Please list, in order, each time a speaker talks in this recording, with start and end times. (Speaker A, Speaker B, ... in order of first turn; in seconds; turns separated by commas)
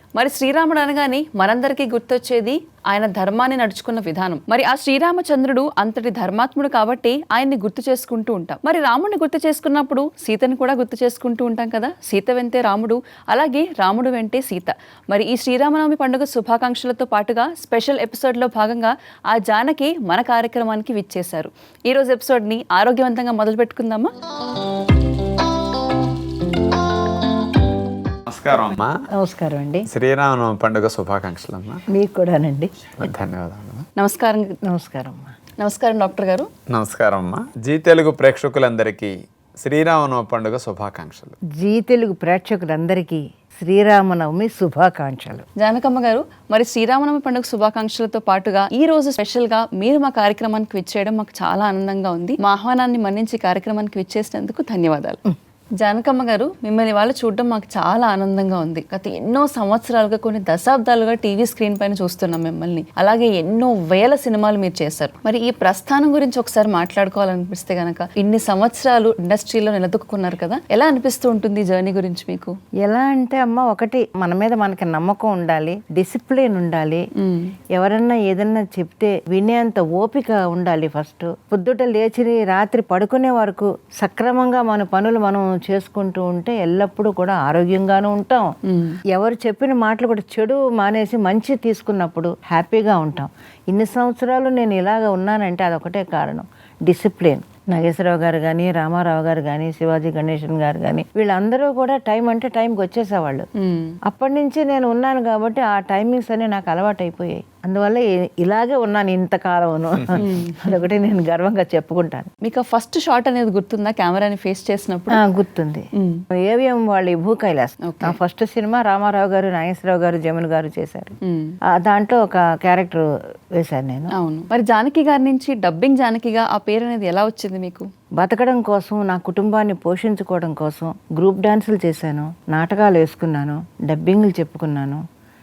Speaker A: 0.1-24.1, Speaker B: 28.3-29.0, Speaker C: 29.1-29.9, Speaker B: 29.9-31.8, Speaker C: 31.9-32.7, Speaker B: 33.0-33.8, Speaker A: 34.0-34.5, Speaker C: 34.7-35.3, Speaker A: 35.6-36.5, Speaker B: 36.7-41.4, Speaker C: 41.6-45.4, Speaker A: 45.6-55.2, Speaker A: 55.8-72.5, Speaker C: 72.8-77.0, Speaker A: 77.2-77.5, Speaker C: 77.7-88.5, Speaker A: 88.7-89.0, Speaker C: 89.1-103.5, Speaker A: 103.6-104.0, Speaker C: 104.1-112.3, Speaker A: 110.2-110.7, Speaker A: 112.4-115.2, Speaker C: 115.1-115.8, Speaker A: 116.0-116.2, Speaker C: 116.4-121.1, Speaker A: 117.8-118.2, Speaker A: 121.2-121.5, Speaker C: 121.8-123.0, Speaker C: 123.6-124.1, Speaker A: 124.1-127.8, Speaker C: 128.2-135.0